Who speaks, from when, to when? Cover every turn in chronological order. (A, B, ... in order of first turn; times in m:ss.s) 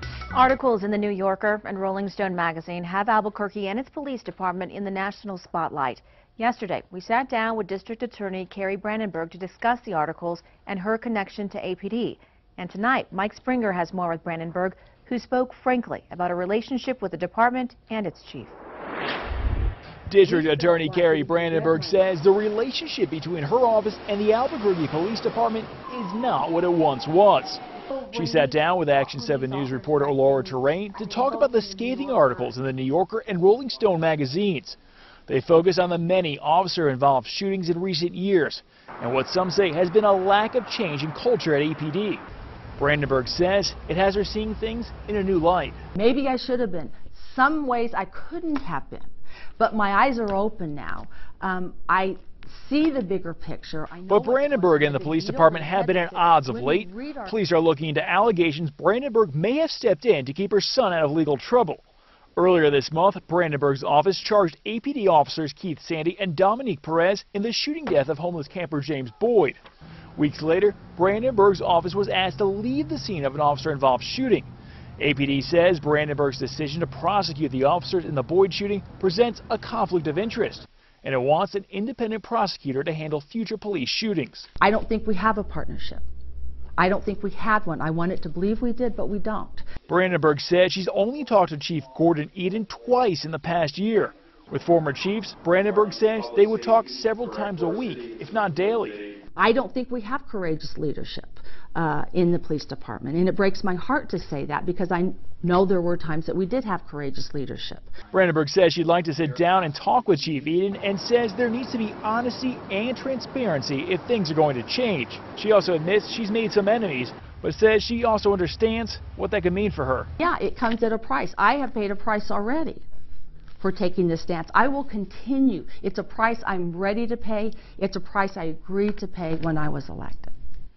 0:00.3-0:18.5 A
0:20.1-0:42.2 B
0:20.2-0:22.1 C
0:29.3-0:29.9 C
0:32.0-0:32.4 C
0:42.8-0:45.8 B
0:46.0-0:57.4 C
0:54.1-1:01.8 B
1:02.4-1:09.6 B
1:10.2-1:24.5 B
1:24.6-1:26.0 C
1:26.8-1:29.6 C
1:29.9-1:39.1 B
1:39.3-1:47.9 C
1:48.1-2:00.1 B
2:00.2-2:02.8 C
2:03.6-2:10.3 C